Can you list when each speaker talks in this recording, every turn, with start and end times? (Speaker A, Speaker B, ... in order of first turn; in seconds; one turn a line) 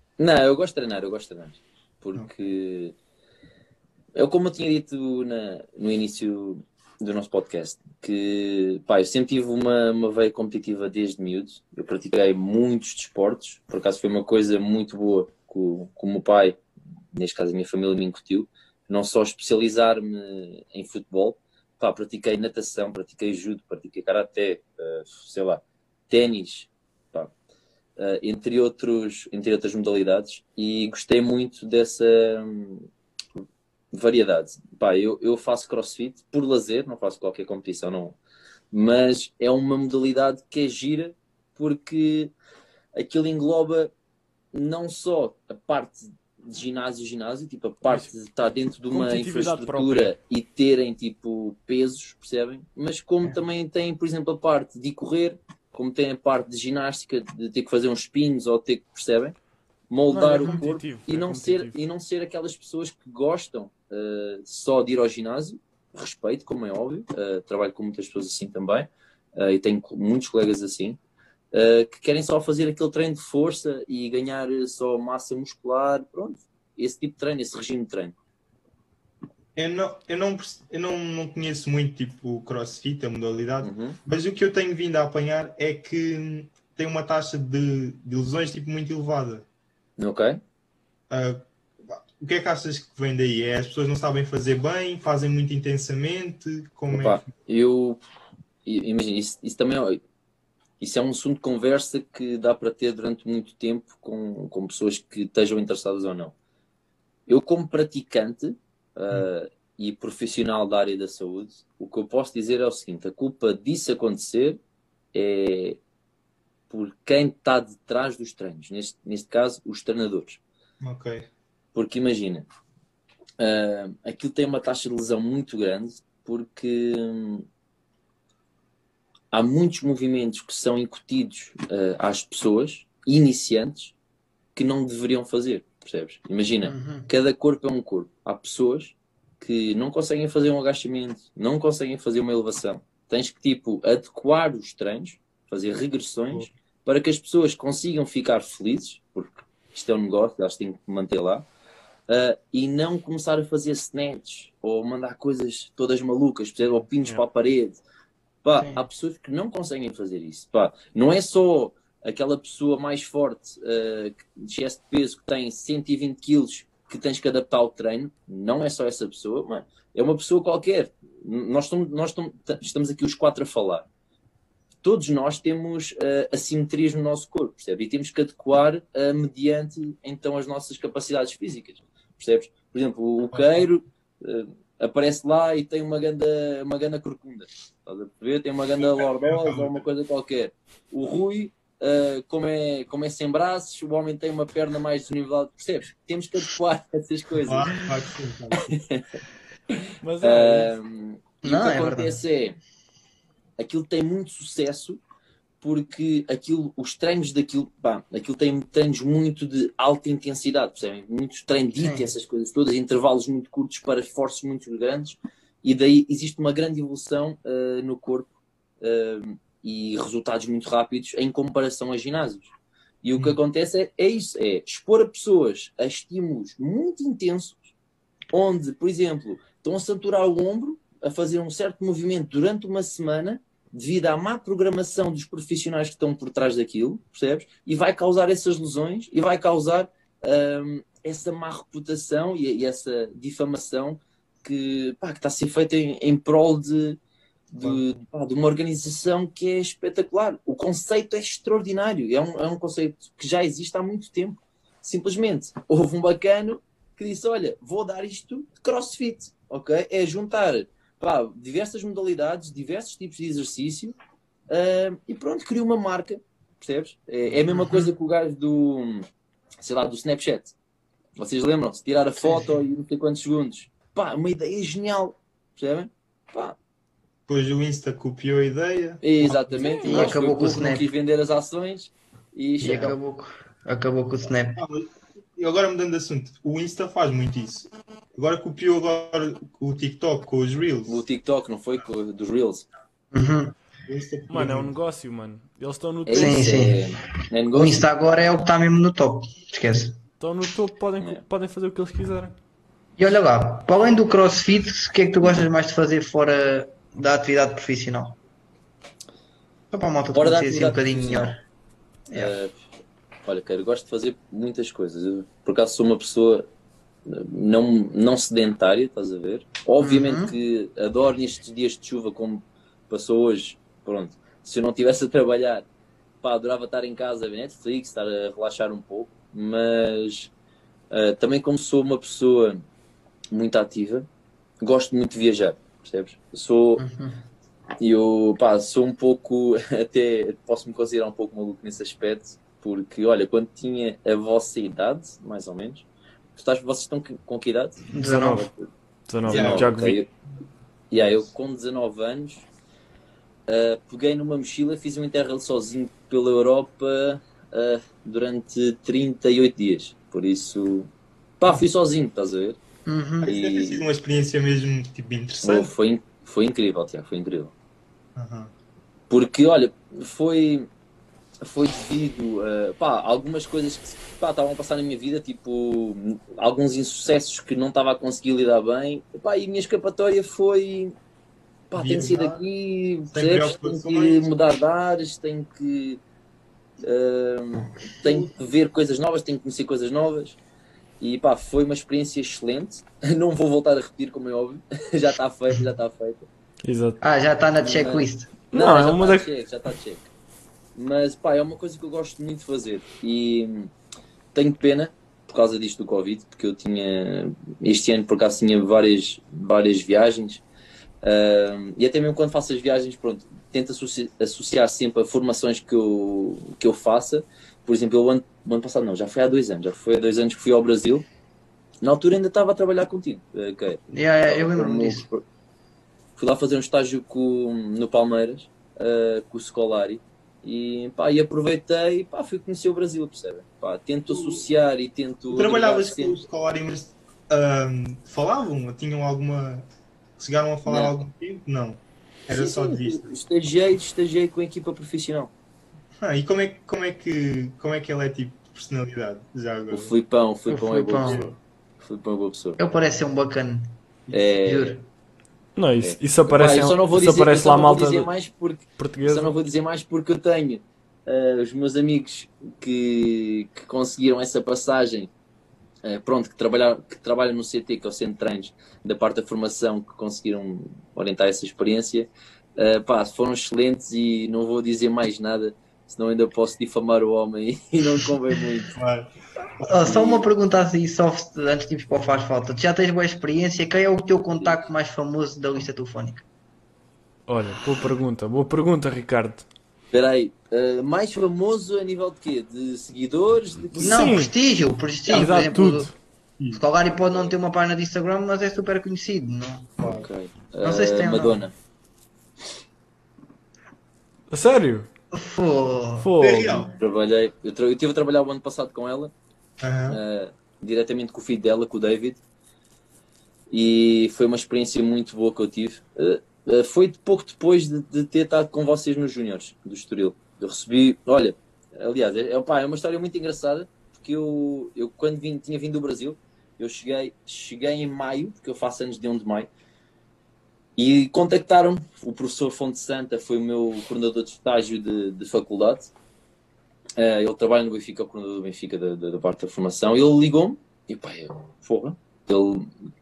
Speaker A: 0.2-3.0
Speaker A: 4.2-16.6
Speaker A: 17.1-27.3
Speaker A: 28.0-32.9
Speaker A: 33.9-38.2
Speaker A: 38.7-42.3
Speaker A: 43.0-43.9
Speaker A: 44.5-59.4
Speaker B: 48.9-50.1
Speaker A: 59.9-71.0
Speaker B: 60.1-61.8
Speaker A: 71.5-78.2
Speaker C: 79.6-89.5
Speaker A: 83.6-84.0
Speaker A: 90.0-90.4
Speaker C: 91.1-97.3
Speaker A: 96.9-98.0
Speaker A: 98.7-100.0
Speaker A: 100.8-106.3
Speaker A: 107.3-114.6
Speaker A: 115.1-115.8
Speaker A: 116.7-120.4
Speaker C: 120.8-121.3
Speaker A: 121.8-122.5
Speaker A: 123.4-127.5
Speaker A: 129.3-133.9
Speaker A: 134.6-151.5
Speaker D: 136.6-137.1
Speaker A: 152.1-157.8
Speaker A: 158.4-173.9
Speaker D: 158.6-158.8
Speaker A: 174.8-197.8
Speaker C: 183.3-183.7
Speaker C: 188.8-189.8
Speaker C: 197.4-198.6
Speaker A: 198.6-199.1
Speaker A: 199.7-202.6
Speaker B: 200.0-200.7
Speaker D: 201.4-202.2
Speaker A: 203.6-205.0
Speaker A: 205.6-222.5
Speaker D: 211.8-212.1
Speaker A: 223.0-227.7
Speaker A: 228.3-247.0
Speaker A: 247.5-263.9
Speaker A: 264.5-269.1
Speaker D: 267.5-267.9
Speaker A: 269.6-270.5
Speaker A: 271.2-276.6
Speaker D: 272.2-272.6
Speaker C: 277.3-280.1
Speaker A: 279.0-282.9
Speaker D: 279.9-280.9
Speaker D: 282.6-284.6
Speaker C: 284.6-291.0
Speaker A: 290.9-292.7
Speaker D: 293.1-293.6
Speaker C: 293.9-294.7
Speaker B: 294.3-296.6
Speaker A: 296.1-297.9
Speaker D: 296.1-296.9
Speaker D: 297.5-300.0
Speaker B: 300.2-302.4
Speaker D: 303.0-308.2
Speaker D: 309.7-311.4
Speaker A: 310.1-311.4
Speaker D: 312.1-312.4
Speaker A: 312.1-312.5
Speaker A: 313.3-316.5
Speaker A: 317.1-325.7
Speaker D: 319.8-320.3
Speaker A: 326.2-330.3
Speaker A: 330.9-332.6
Speaker A: 333.3-334.1
Speaker A: 334.6-336.8
Speaker D: 336.8-337.2
Speaker A: 337.8-348.7
Speaker D: 347.9-348.5
Speaker B: 348.0-348.5
Speaker B: 349.1-350.0
Speaker C: 349.3-349.7
Speaker A: 349.3-350.1
Speaker A: 350.9-352.4
Speaker A: 353.5-362.6
Speaker D: 362.9-363.3
Speaker A: 363.2-363.8
Speaker C: 363.2-365.7
Speaker A: 365.4-367.5
Speaker C: 368.2-368.5
Speaker A: 369.1-370.7
Speaker A: 371.4-380.9
Speaker A: 381.7-386.0
Speaker C: 381.7-382.4
Speaker C: 383.1-384.3
Speaker A: 386.8-390.4
Speaker A: 391.0-396.3
Speaker B: 396.6-397.0
Speaker D: 397.0-398.3
Speaker A: 397.6-400.1
Speaker B: 398.5-399.3
Speaker A: 400.8-403.7
Speaker A: 404.3-410.4
Speaker A: 411.0-421.0
Speaker A: 421.8-425.2
Speaker D: 423.9-425.1
Speaker A: 426.2-436.2
Speaker C: 434.1-434.4
Speaker C: 435.3-439.7
Speaker C: 440.2-443.1
Speaker A: 440.7-441.0
Speaker A: 442.3-445.3
Speaker C: 446.0-449.9
Speaker A: 449.7-452.6
Speaker D: 450.5-451.3
Speaker D: 452.6-453.7
Speaker A: 454.1-454.8
Speaker D: 454.4-454.9
Speaker B: 455.6-458.1
Speaker A: 455.8-465.1
Speaker B: 458.8-459.3
Speaker A: 465.8-478.8
Speaker C: 478.8-479.9
Speaker D: 479.7-486.2
Speaker A: 479.8-480.3
Speaker A: 484.3-484.7
Speaker B: 487.3-489.4
Speaker A: 489.9-494.1
Speaker B: 493.7-494.3
Speaker D: 493.9-495.9
Speaker B: 495.1-495.9
Speaker C: 496.4-496.6
Speaker D: 496.6-499.8
Speaker C: 499.8-500.1
Speaker A: 499.8-501.5
Speaker D: 500.6-501.4
Speaker B: 504.3-504.9
Speaker D: 505.1-506.1
Speaker B: 506.0-506.7
Speaker C: 506.2-506.7
Speaker A: 506.8-509.1
Speaker C: 509.6-510.0
Speaker A: 509.9-512.2
Speaker A: 513.5-529.5
Speaker A: 530.8-535.9
Speaker A: 537.0-542.7